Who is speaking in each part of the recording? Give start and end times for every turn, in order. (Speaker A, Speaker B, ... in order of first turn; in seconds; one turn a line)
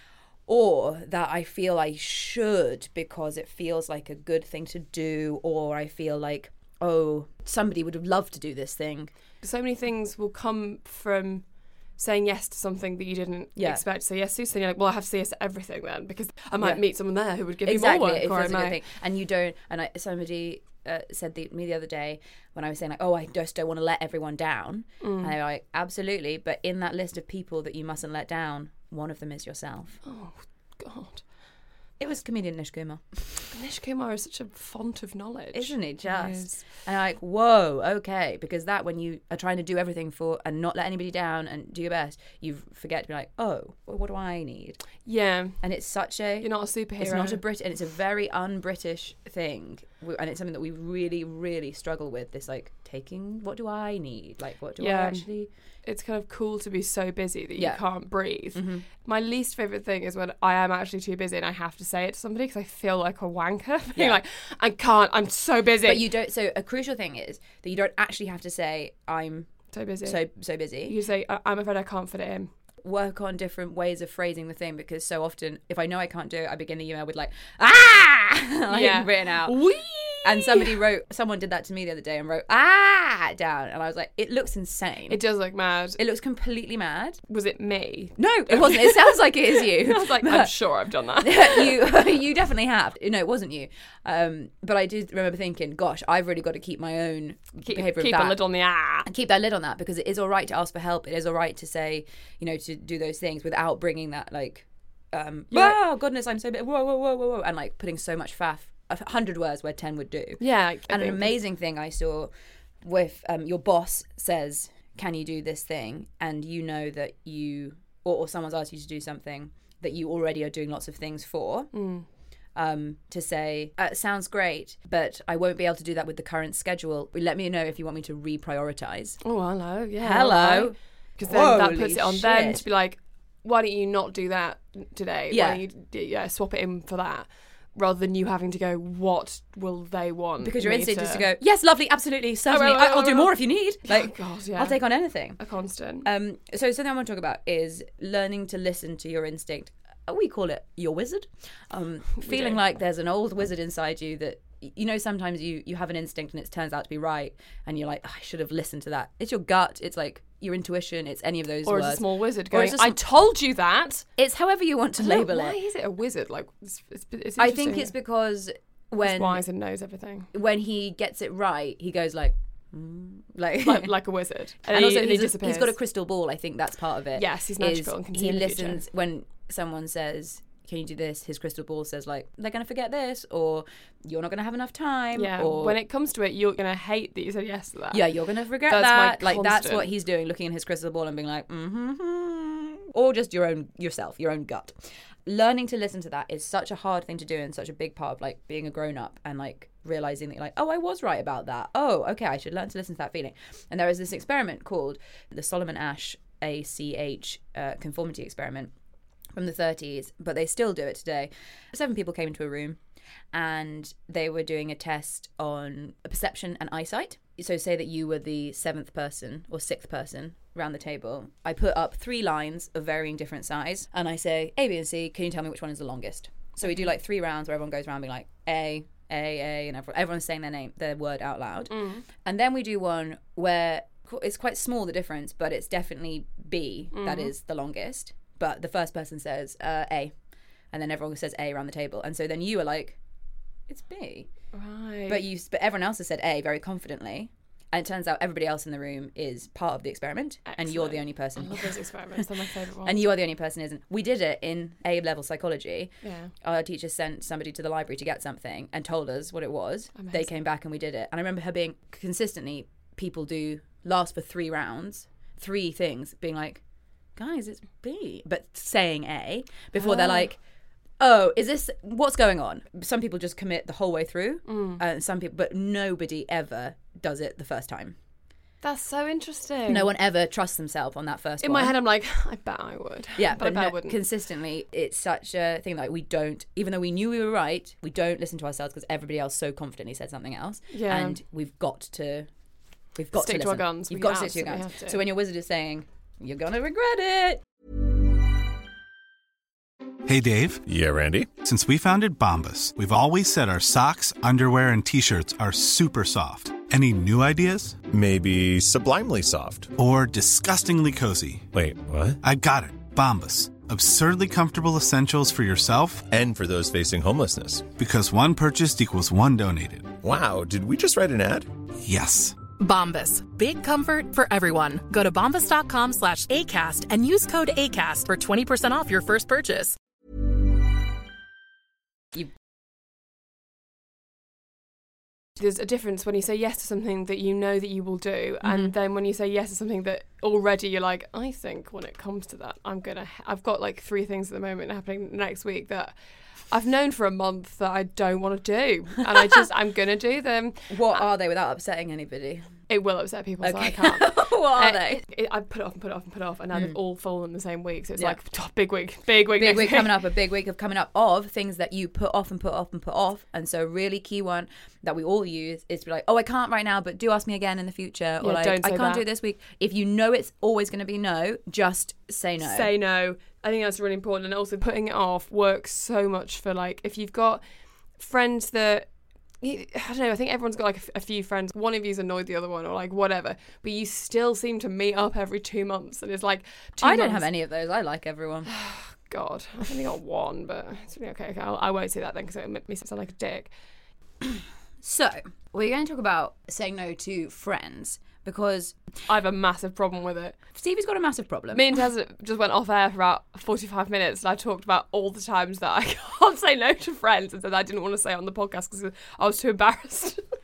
Speaker A: 0.5-9.1
Speaker B: 9.4-11.4
Speaker B: 12.0-18.8
Speaker A: 13.6-13.8
Speaker A: 17.6-30.0
Speaker B: 25.0-25.4
Speaker B: 30.1-31.2
Speaker A: 32.0-33.2
Speaker B: 33.5-36.6
Speaker A: 35.5-44.8
Speaker B: 45.0-45.6
Speaker A: 45.6-46.5
Speaker B: 46.4-47.4
Speaker A: 47.0-55.5
Speaker B: 54.8-55.3
Speaker B: 55.8-66.1
Speaker A: 58.5-58.9
Speaker A: 64.0-64.2
Speaker A: 65.8-69.5
Speaker B: 69.7-70.2
Speaker A: 70.0-71.0
Speaker B: 70.9-72.5
Speaker A: 72.8-79.6
Speaker B: 78.7-80.8
Speaker A: 80.2-85.2
Speaker B: 85.1-86.0
Speaker A: 86.0-87.2
Speaker B: 87.3-91.8
Speaker A: 88.2-90.5
Speaker A: 91.2-98.4
Speaker B: 97.6-99.1
Speaker A: 99.0-112.3
Speaker B: 105.5-105.8
Speaker B: 110.4-111.3
Speaker A: 112.8-121.7
Speaker B: 121.7-122.0
Speaker A: 122.5-129.2
Speaker B: 129.2-141.2
Speaker A: 130.0-132.6
Speaker A: 135.3-135.6
Speaker A: 140.4-145.4
Speaker B: 142.5-143.3
Speaker B: 143.9-144.8
Speaker B: 145.4-146.1
Speaker A: 146.0-163.0
Speaker B: 152.2-152.6
Speaker B: 161.6-164.0
Speaker A: 164.2-165.6
Speaker B: 165.0-167.9
Speaker A: 167.4-169.4
Speaker B: 169.0-170.3
Speaker A: 170.3-173.9
Speaker B: 173.6-175.7
Speaker A: 174.7-185.8
Speaker B: 177.1-178.8
Speaker B: 185.1-188.0
Speaker A: 187.9-208.7
Speaker B: 188.7-189.9
Speaker A: 209.3-212.8
Speaker A: 213.3-240.1
Speaker B: 231.7-232.0
Speaker B: 236.9-237.3
Speaker A: 240.7-243.0
Speaker A: 243.7-244.3
Speaker B: 244.5-245.2
Speaker A: 245.1-252.2
Speaker B: 250.5-253.0
Speaker A: 252.8-255.9
Speaker B: 256.0-256.3
Speaker A: 256.4-266.6
Speaker B: 259.9-260.3
Speaker A: 267.1-270.4
Speaker B: 269.8-270.3
Speaker A: 271.0-277.9
Speaker B: 274.5-274.8
Speaker B: 278.6-279.9
Speaker A: 279.7-281.8
Speaker B: 281.4-284.0
Speaker A: 283.2-292.3
Speaker B: 290.7-291.2
Speaker A: 292.9-297.4
Speaker B: 293.1-295.0
Speaker C: 300.1-300.6
Speaker D: 300.6-301.3
Speaker C: 301.4-307.8
Speaker D: 307.9-309.7
Speaker C: 309.8-311.5
Speaker D: 311.5-312.2
Speaker C: 312.2-316.1
Speaker D: 316.1-317.7
Speaker C: 317.8-319.9
Speaker D: 320.0-321.5
Speaker C: 321.8-322.4
Speaker E: 322.6-329.8
Speaker B: 335.4-345.9
Speaker A: 338.4-338.7
Speaker B: 346.5-351.0
Speaker A: 350.7-352.5
Speaker B: 352.7-360.0
Speaker A: 353.4-355.0
Speaker A: 359.3-372.7
Speaker B: 368.2-369.0
Speaker B: 372.4-377.4
Speaker B: 378.0-378.9
Speaker B: 379.4-387.3
Speaker A: 386.8-388.5
Speaker B: 388.5-393.5
Speaker A: 394.2-398.8
Speaker B: 399.1-400.4
Speaker A: 400.5-401.7
Speaker B: 401.5-410.2